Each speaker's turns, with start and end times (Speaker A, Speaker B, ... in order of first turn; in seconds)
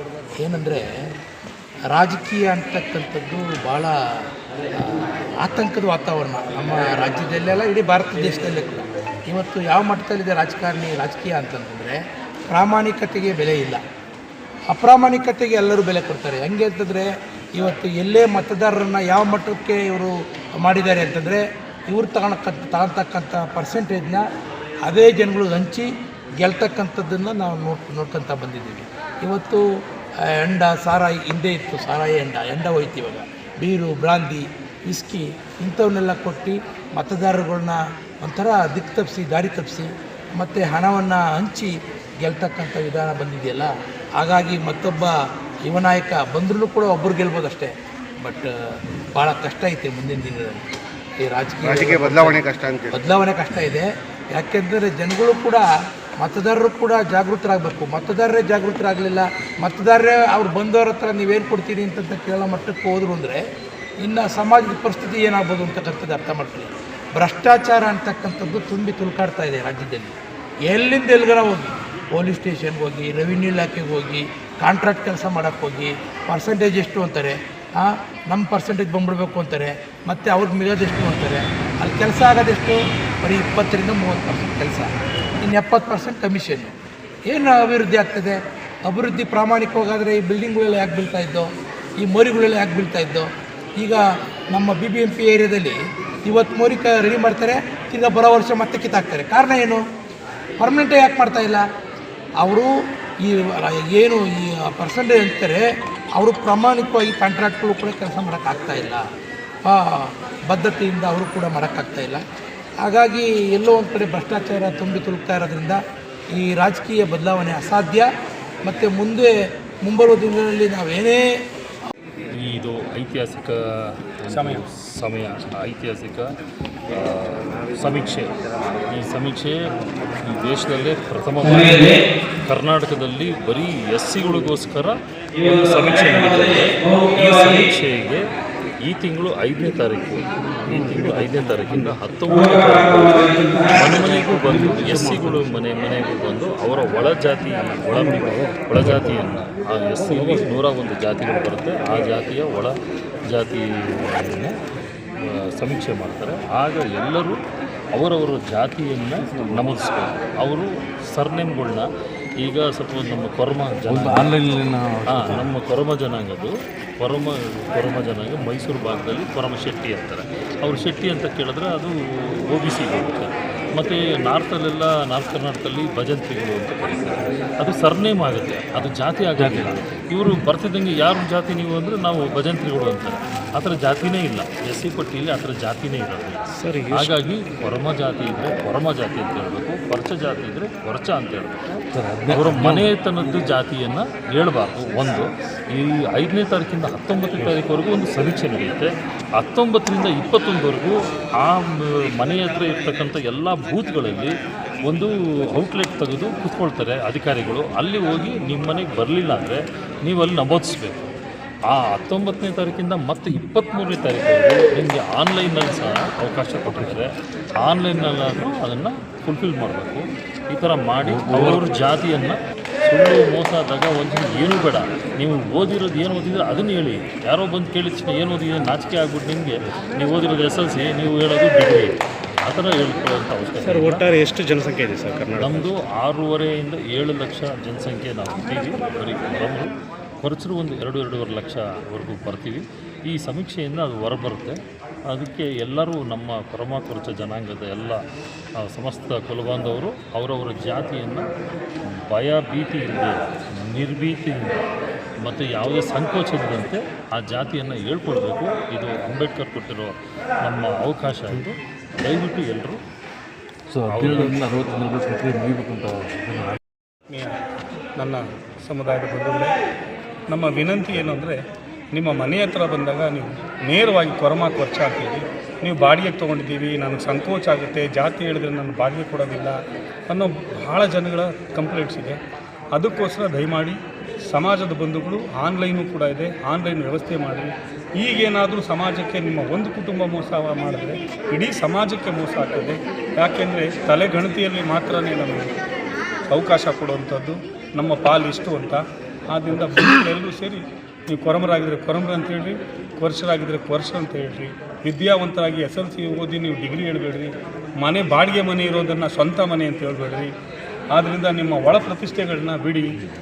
Speaker A: 0.4-0.9, 1.9-4.0, 4.8-13.8, 14.7-24.3, 24.9-29.6, 30.3-50.7, 51.2-55.7, 56.2-63.4, 64.0-70.2, 70.7-86.8, 87.3-91.5, 92.0-99.8, 100.6-101.6, 102.4-102.7, 103.2-105.6, 106.2-109.0, 109.7-112.2, 112.8-115.8, 116.4-118.1, 118.7-119.3, 119.8-121.2
Speaker B: 51.6-52.9, 186.6-187.1, 233.6-235.7
Speaker C: 122.3-126.3, 126.9-128.3, 128.9-129.6, 130.2-138.2, 138.9-152.7, 153.3-154.5, 155.2-157.4, 157.9-161.9, 162.4-164.3, 165.1-204.3, 204.9-211.1, 211.7-234.1, 235.4-248.0, 248.6-251.3, 251.9-254.6, 255.2-262.8, 263.9-264.6
Speaker D: 124.3-124.6, 267.1-267.4, 268.0-269.6, 270.3-271.4, 271.9-282.2, 282.7-295.5, 296.3-310.3, 310.9-313.0
Speaker E: 144.7-145.4, 159.3-159.8, 163.9-165.5, 179.4-179.8, 191.9-192.9, 221.0-221.7, 263.7-266.6